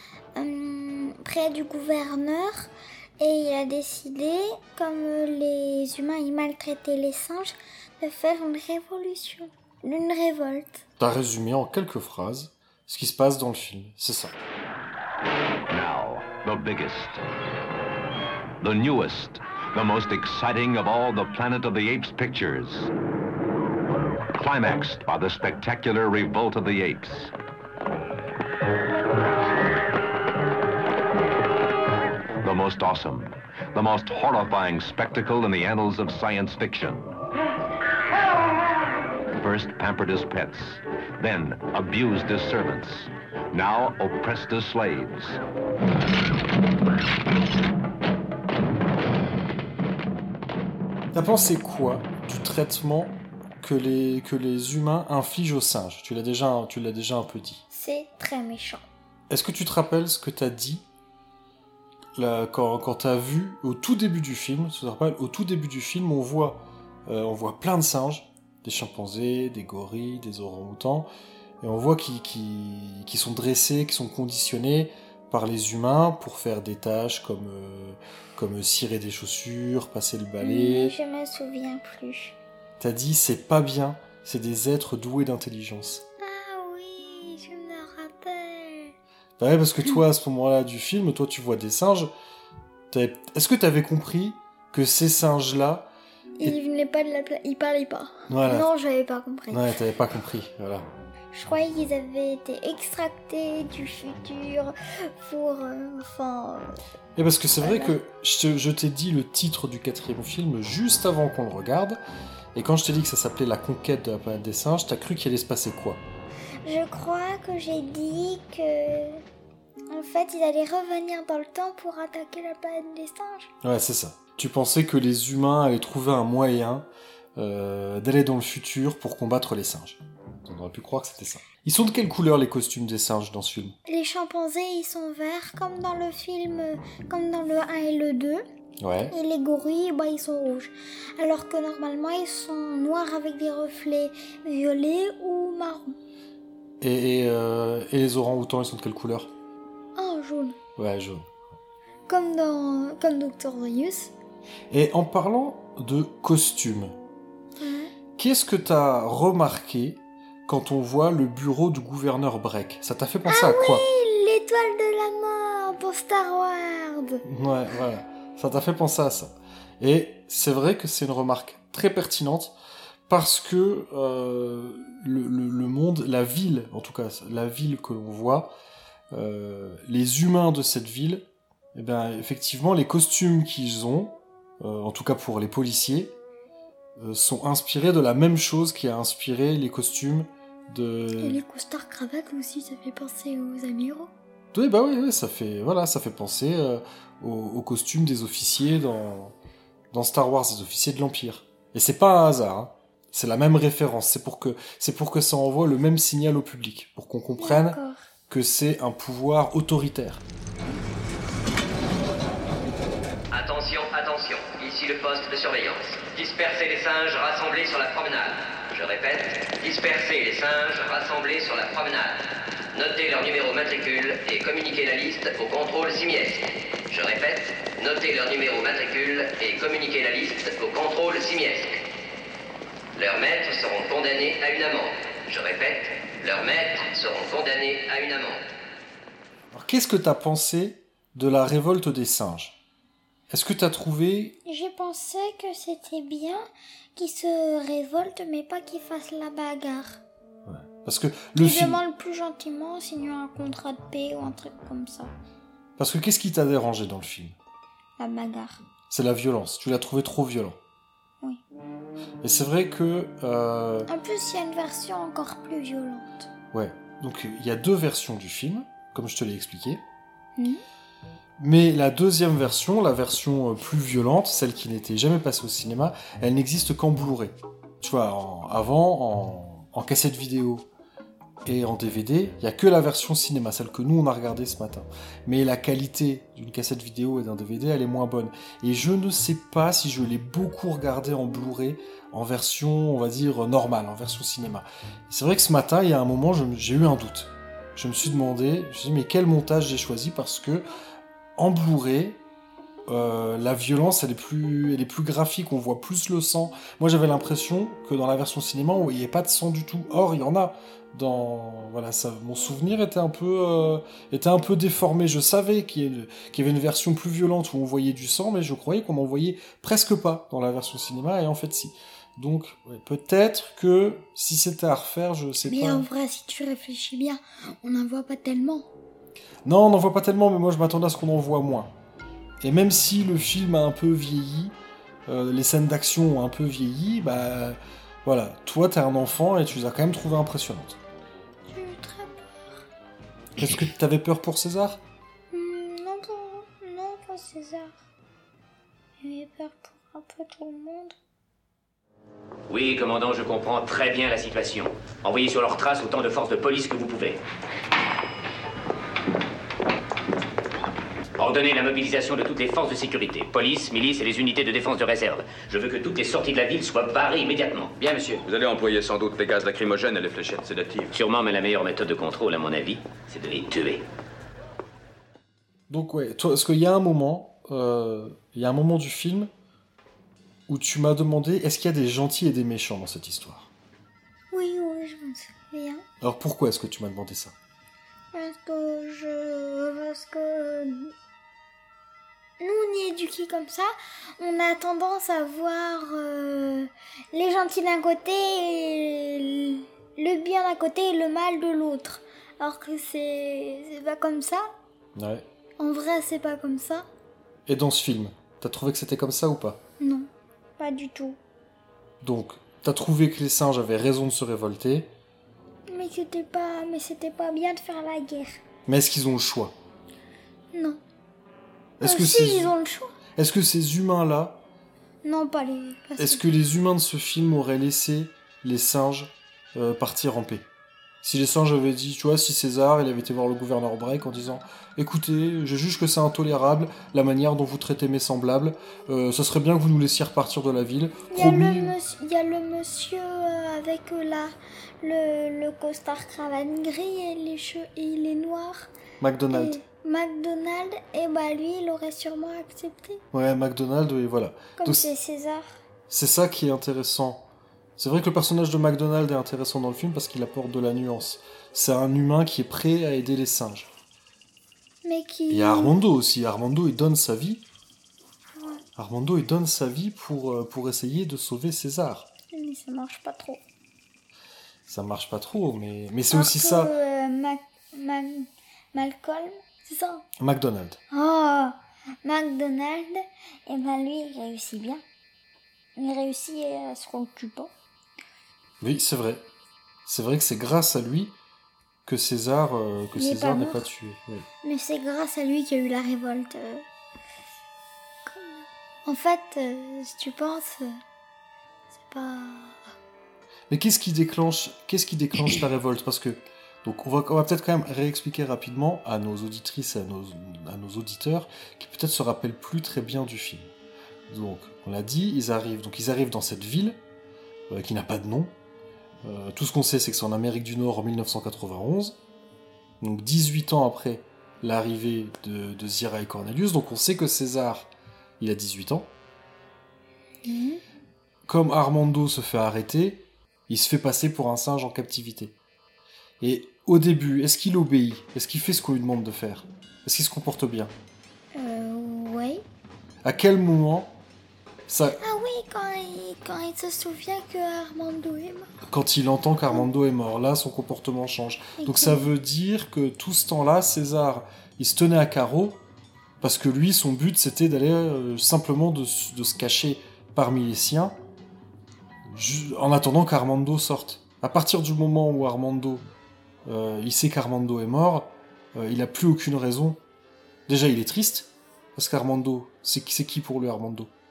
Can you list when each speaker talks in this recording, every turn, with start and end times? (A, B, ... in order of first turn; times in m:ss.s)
0:00.4-0:10.8 A
0:11.0-0:14.4 B
0:15.7-0:17.2 C
0:18.6-0:22.9 C
0:24.3-0:27.3 C
0:32.4-0:37.1 C
0:39.4-0:45.4 C
0:51.1-0:57.6 B
0:57.7-0:58.8 A
0:59.3-1:00.8 B
1:02.2-1:11.1 B
1:11.6-1:21.0 B
1:20.4-1:22.4 A
1:22.8-1:26.0 B
1:26.2-1:28.9 A
1:29.4-1:32.1 B
1:32.9-1:36.6 B
1:36.4-1:39.7 A
1:38.3-1:38.7 B
1:39.5-1:40.9 B
1:41.3-1:46.8 A
1:47.2-1:52.0 B
1:47.6-1:48.0 A
1:52.5-1:56.0 B
1:56.6-1:59.2 A
1:59.9-2:03.5 A
2:03.6-2:13.8 B
2:13.9-2:18.4 A
2:18.8-2:19.2 B
2:19.1-2:26.0 A
2:26.8-2:29.3 B
2:30.0-2:30.6 A
2:30.8-2:31.3 B
2:32.1-2:34.1 A
2:34.7-2:37.0 B
2:37.6-2:37.9 A
2:38.2-2:43.9 B
2:43.3-2:47.2 A
2:47.2-2:52.6 B
2:53.1-2:58.5 B
2:59.1-3:06.2 B
3:07.0-3:11.4 B
3:11.2-3:14.1 A
3:14.5-3:19.4 B
3:19.9-3:30.2 B
3:27.4-3:28.0 A
3:33.3-3:51.8 D
3:53.0-3:58.4 D
3:59.5-4:02.6 B
4:03.3-4:04.4 B
4:04.5-4:10.0 A
4:10.5-4:11.8 B
4:11.4-4:15.1 A
4:15.8-4:17.4 B
4:18.0-4:18.6 A
4:18.9-4:20.6 B
4:22.2-4:23.9 B
4:23.9-4:26.3 A
4:26.5-4:29.8 B
4:30.4-4:30.6 A
4:31.4-4:40.7 B
4:41.4-5:00.7 B
5:01.4-5:02.2 B
5:02.9-5:25.9 B
5:25.4-5:28.7 A
5:29.4-5:31.7 B
5:32.4-5:34.6 B
5:35.1-5:40.8 B
5:41.5-5:42.5 A
5:43.4-5:44.8 B
5:45.3-5:47.8 A
5:49.0-5:51.0 A
5:52.5-5:57.2 E
6:01.2-6:08.2 E
6:07.8-6:11.0 F
6:10.9-6:13.9 E
6:15.7-6:19.3 B
6:20.5-6:23.5 B
6:24.3-6:25.8 A
6:26.0-6:27.4 B
6:28.1-6:30.9 A
6:32.4-6:44.5 A
6:45.0-6:45.3 B
6:45.6-6:46.9 A
6:47.5-6:49.6 B
6:49.8-6:51.2 A
6:52.0-6:54.9 B
6:55.7-6:58.4 A
6:58.7-6:59.6 B
7:00.5-7:00.8 A
7:01.8-7:02.5 B
7:01.8-7:03.0 A
7:03.2-7:04.4 B
7:05.0-7:06.2 A
7:06.0-7:10.5 B
7:11.0-7:21.7 B
7:21.1-7:28.7 A
7:29.0-7:29.6 B
7:29.3-7:33.0 A
7:33.1-7:34.9 B
7:34.6-7:35.6 A
7:35.9-7:43.7 B
7:44.8-7:45.8 A
7:45.3-7:47.4 B
7:48.3-7:48.6 A
7:48.8-7:52.1 B
7:52.3-7:53.4 A
7:54.7-7:56.7 B
7:56.1-8:00.0 A
8:00.2-8:00.8 B
8:00.9-8:04.8 A
8:05.8-8:07.5 A
8:08.6-8:09.3 B
8:09.8-8:11.2 B
8:11.8-8:14.3 B
8:13.0-8:13.7 A
8:14.4-8:16.6 A
8:18.1-8:20.8 A
8:21.7-8:22.8 A
8:23.5-8:33.5 B
8:34.1-8:36.8 B
8:37.5-8:38.4 B
8:39.0-8:42.0 B
8:42.8-8:48.9 B
8:50.2-8:50.6 A
8:51.3-8:55.4 B
8:56.2-9:00.7 B
9:01.3-9:02.4 A
9:03.0-9:04.0 B
9:04.7-9:05.0 B
9:05.0-9:08.5 A
9:08.7-9:15.6 B
9:11.6-9:12.1 A
9:16.2-9:21.0 B
9:22.1-9:25.9 B
9:26.4-9:29.8 B
9:30.5-9:33.9 B